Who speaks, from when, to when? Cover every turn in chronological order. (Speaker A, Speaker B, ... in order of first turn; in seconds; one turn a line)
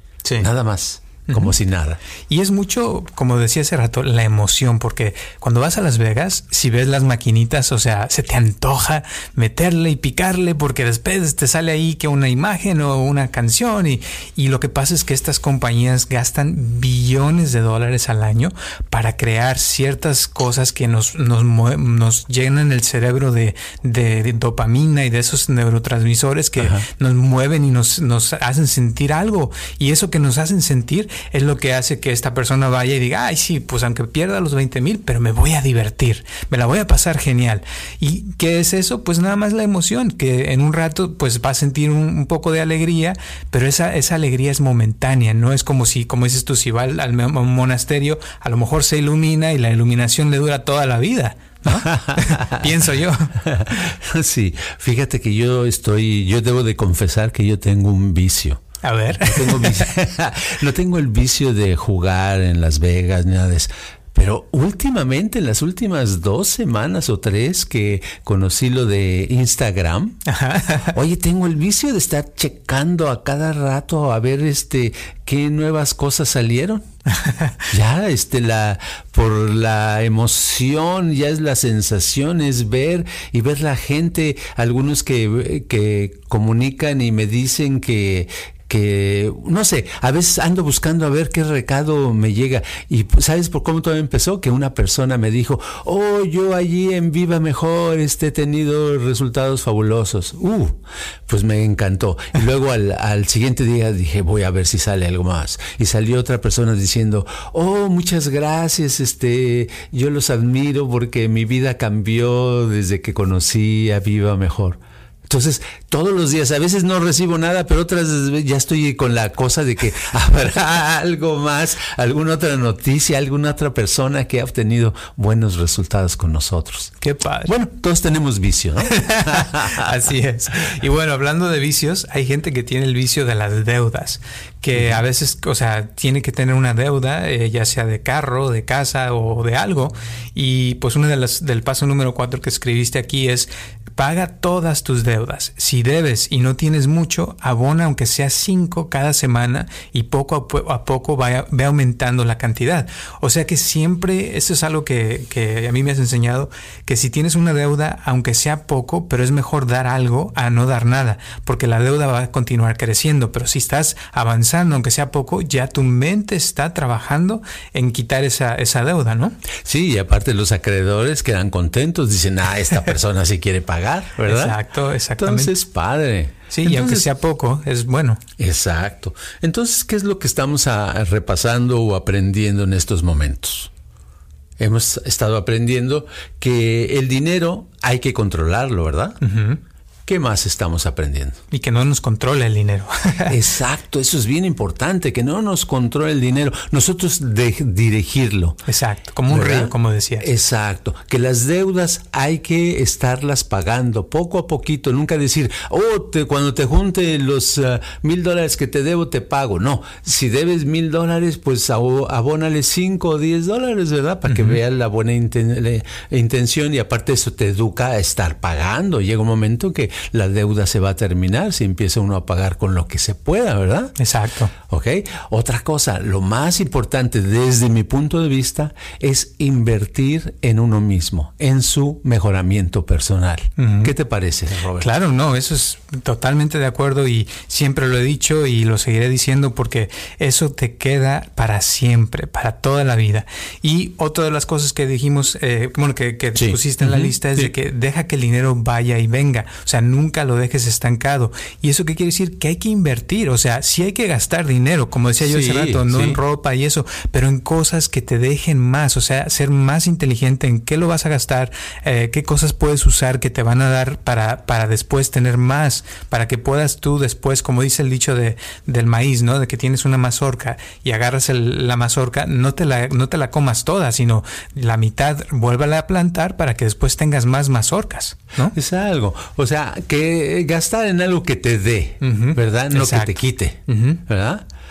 Speaker A: 0.2-0.5
Speaker B: 0.4-2.0
Speaker A: 1.3-1.6
Speaker A: 2.3-53.3
Speaker B: 26.6-26.9
Speaker B: 51.7-52.7
Speaker B: 53.4-70.2
Speaker A: 58.8-59.9
Speaker A: 70.3-70.9
Speaker B: 70.9-76.8
Speaker A: 77.1-77.6
Speaker B: 77.7-126.9
Speaker A: 127.0-127.5
Speaker B: 127.5-129.9
Speaker A: 128.9-169.4
Speaker B: 169.6-174.6
Speaker A: 174.3-175.5
Speaker B: 175.2-177.1
Speaker A: 176.5-178.2
Speaker B: 178.4-183.7
Speaker B: 184.6-189.2
Speaker A: 189.2-189.6
Speaker B: 190.1-191.4
Speaker A: 191.5-193.4
Speaker B: 193.3-198.6
Speaker A: 198.7-200.3
Speaker B: 199.3-223.9
Speaker A: 214.3-214.6
Speaker A: 224.0-224.5
Speaker B: 224.6-234.9
Speaker A: 233.6-233.9
Speaker A: 234.8-278.6
Speaker B: 246.4-247.5
Speaker B: 255.2-256.2
Speaker B: 278.5-284.4
Speaker A: 282.0-284.0